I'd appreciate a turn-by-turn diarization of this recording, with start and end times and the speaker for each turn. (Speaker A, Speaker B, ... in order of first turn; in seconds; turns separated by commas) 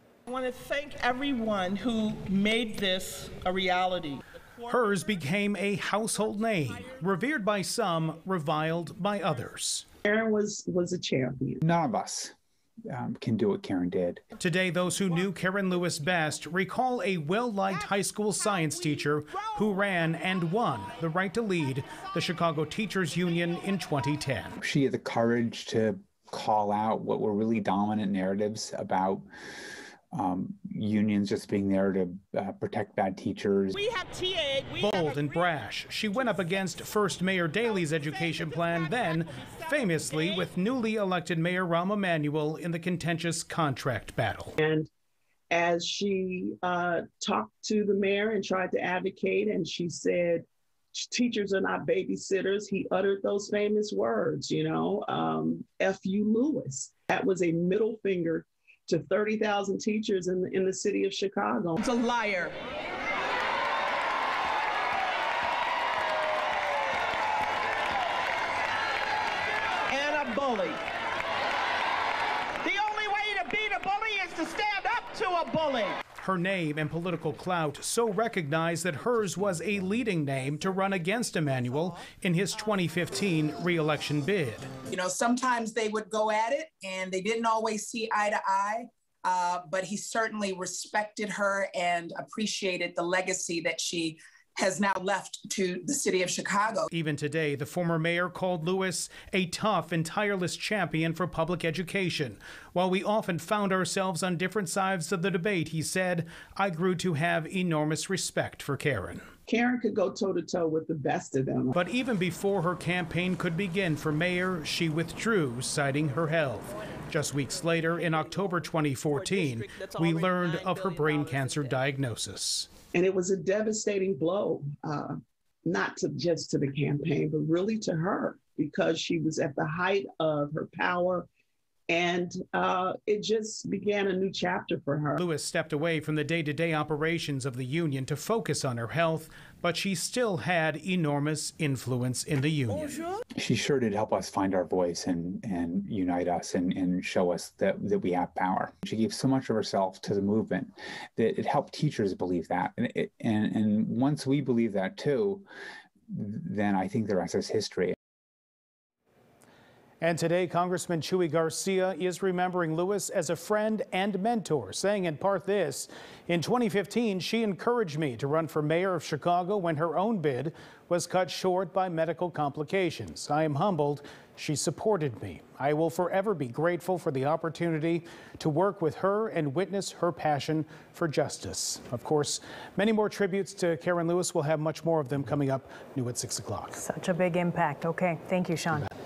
Speaker A: 0.3-5.2, Speaker B: 4.7-9.8, Speaker A: 6.4-7.0, Speaker C: 10.0-11.6, Speaker D: 11.6-12.3, Speaker D: 12.9-14.2, Speaker B: 14.4-24.6, Speaker A: 18.4-19.9, Speaker D: 24.6-29.2, Speaker D: 30.1-33.8, Speaker A: 33.7-35.5, Speaker B: 34.8-44.5, Speaker A: 36.1-36.6, Speaker A: 37.6-40.5, Speaker C: 44.6-44.9, Speaker C: 45.5-61.8, Speaker A: 61.8-62.5, Speaker A: 69.9-70.8, Speaker A: 72.6-76.0, Speaker B: 76.2-84.7, Speaker E: 84.8-96.9, Speaker B: 96.9-109.2, Speaker C: 109.5-111.7, Speaker B: 111.7-122.7, Speaker A: 119.1-121.8, Speaker C: 122.9-131.3, Speaker C: 131.9-135.2, Speaker B: 135.2-143.1, Speaker D: 143.4-155.4, Speaker D: 156.1-157.9, Speaker B: 160.0-186.8, Speaker F: 186.7-188.9